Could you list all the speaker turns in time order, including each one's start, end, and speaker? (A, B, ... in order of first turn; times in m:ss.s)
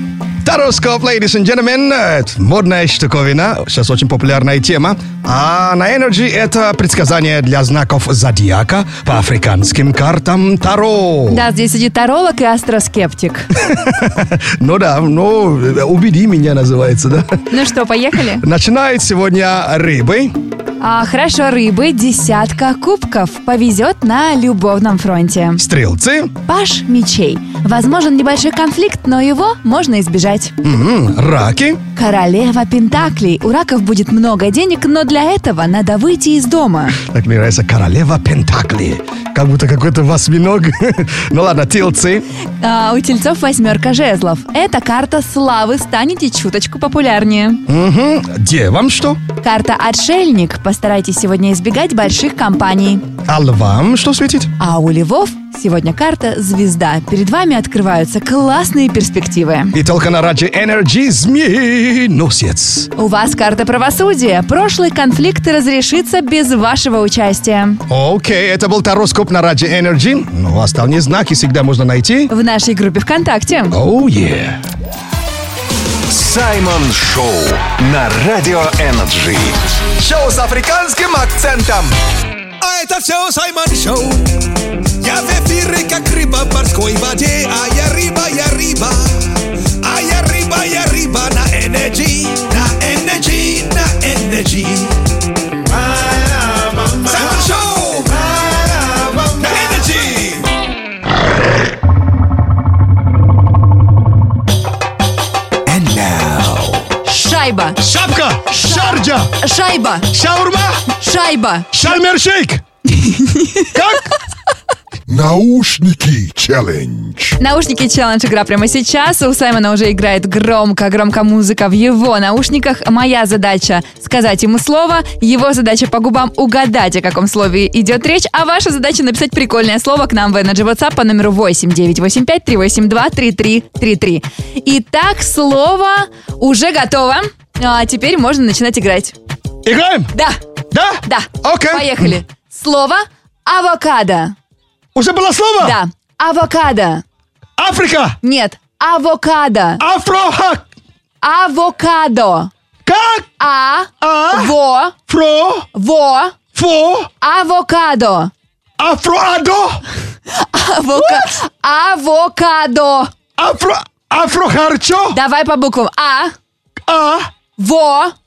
0:00.4-0:11.4 A
0:11.3-0:13.5 B
0:13.6-0:17.4 A
0:17.5-0:18.4 B
0:18.4-0:20.3 A
0:20.8-0:25.6 B
0:25.6-0:26.3 A
0:26.5-0:30.5 B
0:30.6-0:31.8 A
0:32.0-0:37.0 B
0:37.0-0:42.3 A
0:42.6-0:47.6 B
0:47.7-0:49.2 A
0:49.4-0:53.0 B
0:53.3-0:54.5 A
0:54.6-0:59.7 B
0:59.7-1:02.9 A
1:03.0-1:07.8 B
1:07.9-1:12.3 A
1:12.3-1:13.8 B
1:13.7-1:14.6 A
1:16.1-1:19.6 C
1:20.0-1:21.9 D
1:22.6-1:24.2 E
1:25.0-1:29.0 E
1:29.8-1:34.9 E
1:36.0-1:40.4 E
1:36.6-1:37.6 A
1:39.4-1:40.2 A
1:45.7-1:46.9 E
1:47.0-1:47.8 B
1:47.8-1:49.3 A
1:48.5-1:50.1 B
1:50.1-1:50.8 A
1:51.0-1:51.7 B
1:51.7-1:52.6 A
1:52.9-1:53.7 B
1:53.7-1:54.1 A
1:55.1-1:57.4 F
1:57.4-2:19.2 B
2:19.6-2:20.1 A
2:20.7-2:22.2 A
2:21.0-2:24.4 B
2:25.0-2:25.8 A
2:25.6-2:27.0 B
2:27.6-2:28.2 A
2:28.2-2:29.8 B
2:29.8-2:30.7 A
2:31.2-2:32.5 B
2:32.9-2:33.3 A
2:33.4-2:35.0 B
2:34.0-2:34.5 A
2:35.1-2:35.7 A
2:35.7-2:36.4 B
2:36.6-2:37.1 A
2:37.2-2:38.3 B
2:38.8-2:39.8 A
2:40.3-2:43.1 B
2:41.0-2:41.3 A
2:43.4-2:45.2 A
2:45.1-2:46.4 B
2:46.9-2:47.3 A
2:47.6-2:48.2 B